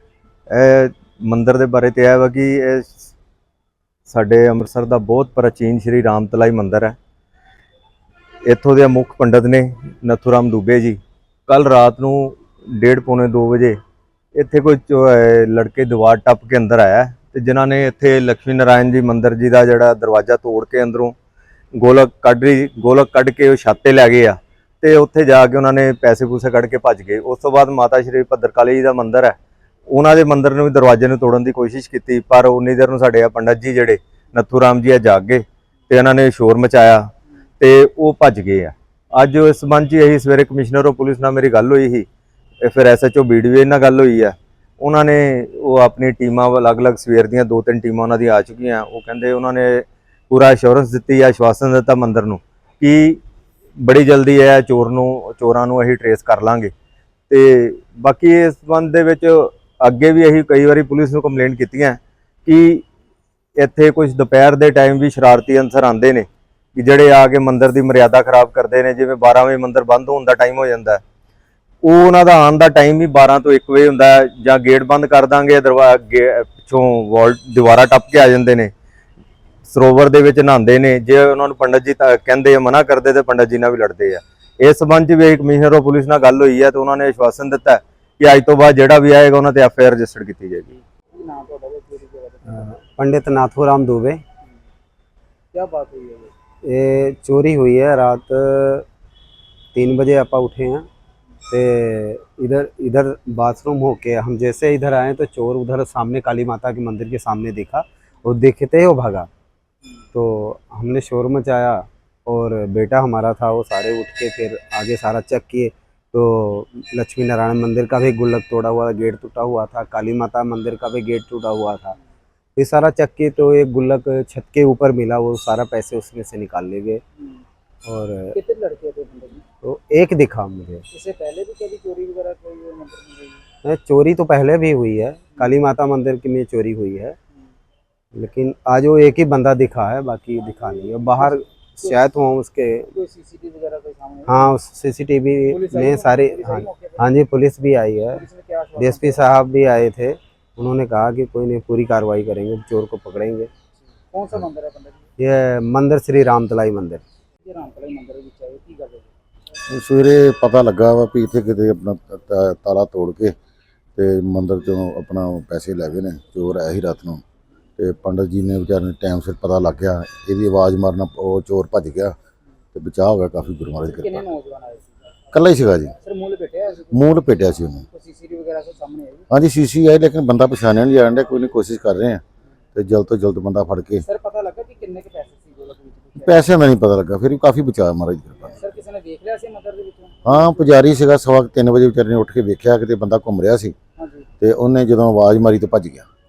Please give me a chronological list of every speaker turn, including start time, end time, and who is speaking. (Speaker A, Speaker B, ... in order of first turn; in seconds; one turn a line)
Speaker A: 0.5-3.1
Speaker A: 4.1-7.0
Speaker A: 8.4-13.8
Speaker A: 14.3-21.1
Speaker A: 21.8-29.3
Speaker A: 29.9-37.1
Speaker A: 37.6-42.0
Speaker A: 42.6-53.2
Speaker A: 53.8-56.7
Speaker A: 57.3-62.8
Speaker A: 63.6-71.0
Speaker A: 71.8-78.7
Speaker A: 79.7-90.7
Speaker B: 91.1-92.8
Speaker C: 92.6-94.2
Speaker B: 95.5-96.3
Speaker C: 96.6-98.8
Speaker C: 99.7-100.9
Speaker C: 101.5-109.3
Speaker C: 110.1-122.0
Speaker C: 122.6-127.0
Speaker C: 127.8-128.3
Speaker B: 128.3-129.4
Speaker C: 129.6-130.8
Speaker B: 130.9-133.4
Speaker C: 133.6-137.2
Speaker C: 138.1-142.9
Speaker B: 140.5-142.0
Speaker B: 142.9-144.5
Speaker C: 144.3-148.2
Speaker B: 145.4-147.1
Speaker B: 148.1-149.3
Speaker C: 148.8-153.5
Speaker B: 154.1-155.0
Speaker C: 155.2-157.0
Speaker B: 157.4-159.1
Speaker D: 159.7-163.3
Speaker D: 163.9-167.2
Speaker D: 167.8-172.1
Speaker D: 172.7-174.2
Speaker B: 173.8-174.9
Speaker D: 175.3-175.9
Speaker B: 175.9-177.0
Speaker D: 176.9-177.8
Speaker B: 177.8-179.3
Speaker D: 179.3-182.2
Speaker D: 182.7-184.0
Speaker B: 184.0-186.5
Speaker D: 186.2-188.6
Speaker B: 188.5-190.7
Speaker D: 190.2-193.7
Speaker B: 194.0-194.3
Speaker D: 194.4-196.0